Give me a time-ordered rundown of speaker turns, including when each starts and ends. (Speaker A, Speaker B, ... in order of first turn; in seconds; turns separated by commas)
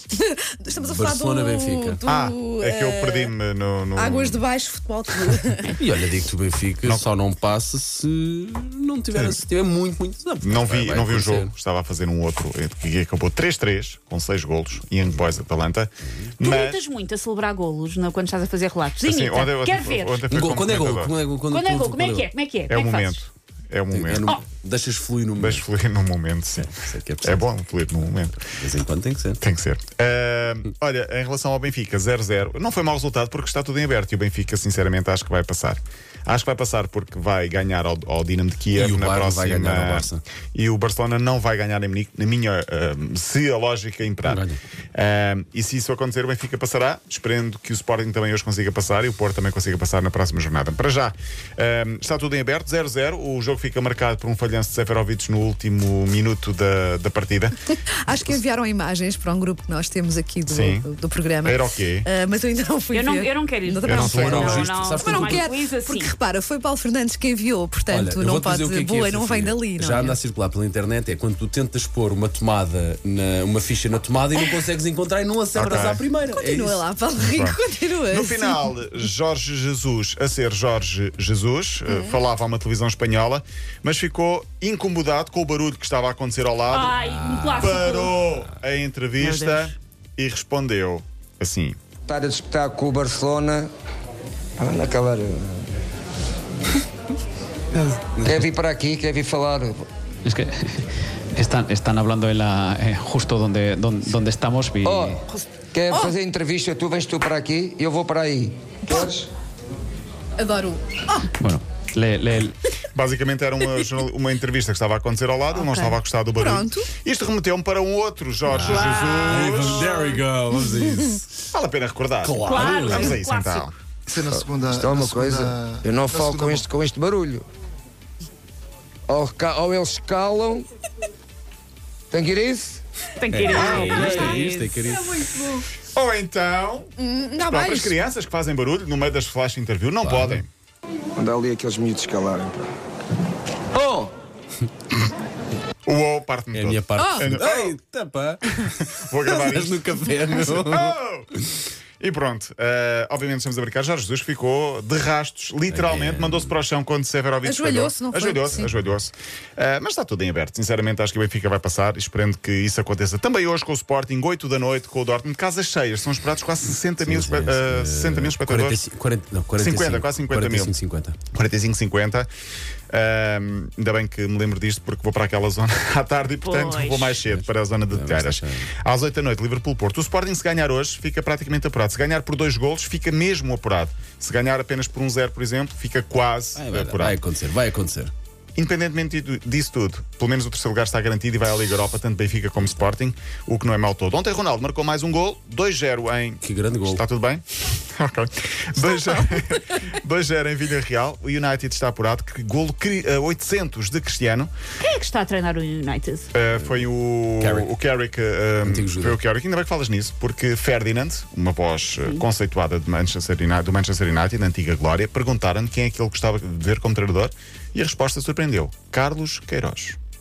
Speaker A: 0.1-3.3, Speaker B: 0.8-2.0, Speaker C: 2.1-4.4, Speaker A: 4.0-5.8, Speaker B: 5.8-11.5, Speaker C: 10.4-16.8, Speaker D: 16.4-20.3, Speaker C: 19.0-21.1, Speaker B: 20.3-22.3, Speaker D: 21.5-23.2, Speaker C: 22.7-24.3, Speaker B: 23.9-25.6, Speaker C: 25.4-26.7, Speaker B: 26.6-27.5, Speaker C: 27.2-28.5, Speaker B: 28.4-29.4, Speaker C: 29.4-57.5, Speaker B: 38.7-40.2, Speaker B: 44.2-44.6, Speaker A: 57.7-70.2, Speaker C: 60.5-60.9, Speaker C: 61.4-62.1, Speaker D: 62.9-66.1, Speaker C: 63.9-64.7, Speaker B: 64.2-65.4, Speaker B: 67.9-76.8, Speaker A: 74.4-74.7, Speaker C: 75.5-76.0, Speaker A: 76.3-78.7, Speaker C: 77.3-77.6, Speaker C: 78.1-87.0, Speaker A: 81.9-82.2, Speaker D: 86.7-88.1, Speaker C: 87.5-91.8, Speaker D: 89.2-89.7, Speaker E: 92.1-93.7, Speaker E: 94.6-95.6, Speaker B: 97.8-98.2, Speaker E: 98.2-99.8, Speaker F: 100.2-105.2, Speaker E: 104.8-109.3, Speaker A: 110.4-111.3, Speaker F: 111.3-112.6, Speaker C: 112.9-120.1, Speaker A: 115.6-116.9, Speaker B: 118.5-121.3, Speaker D: 118.7-119.9, Speaker G: 119.5-120.0, Speaker C: 121.5-123.7, Speaker B: 122.2-123.1, Speaker D: 122.4-123.7, Speaker G: 124.1-126.6, Speaker E: 124.2-127.5, Speaker E: 129.1-130.7, Speaker E: 132.1-132.8, Speaker D: 133.2-134.8, Speaker B: 133.3-135.2, Speaker C: 133.5-134.3, Speaker G: 133.8-135.0, Speaker A: 135.2-135.4, Speaker C: 135.8-140.5, Speaker A: 137.0-138.0, Speaker B: 140.0-140.4, Speaker E: 141.2-142.6, Speaker E: 143.7-144.1, Speaker C: 145.8-147.8, Speaker B: 146.5-150.9, Speaker A: 147.0-147.3, Speaker C: 148.6-151.3, Speaker C: 152.0-168.8, Speaker B: 155.7-156.6, Speaker A: 157.4-158.7, Speaker B: 167.0-171.1, Speaker C: 169.6-170.7, Speaker C: 171.3-172.3, Speaker C: 172.9-187.2, Speaker D: 176.4-177.2, Speaker B: 177.2-178.6, Speaker B: 186.5-188.1, Speaker C: 188.6-204.5, Speaker B: 196.4-197.0, Speaker D: 204.8-206.3, Speaker C: 206.3-220.0, Speaker B: 207.4-207.7, Speaker B: 208.6-209.2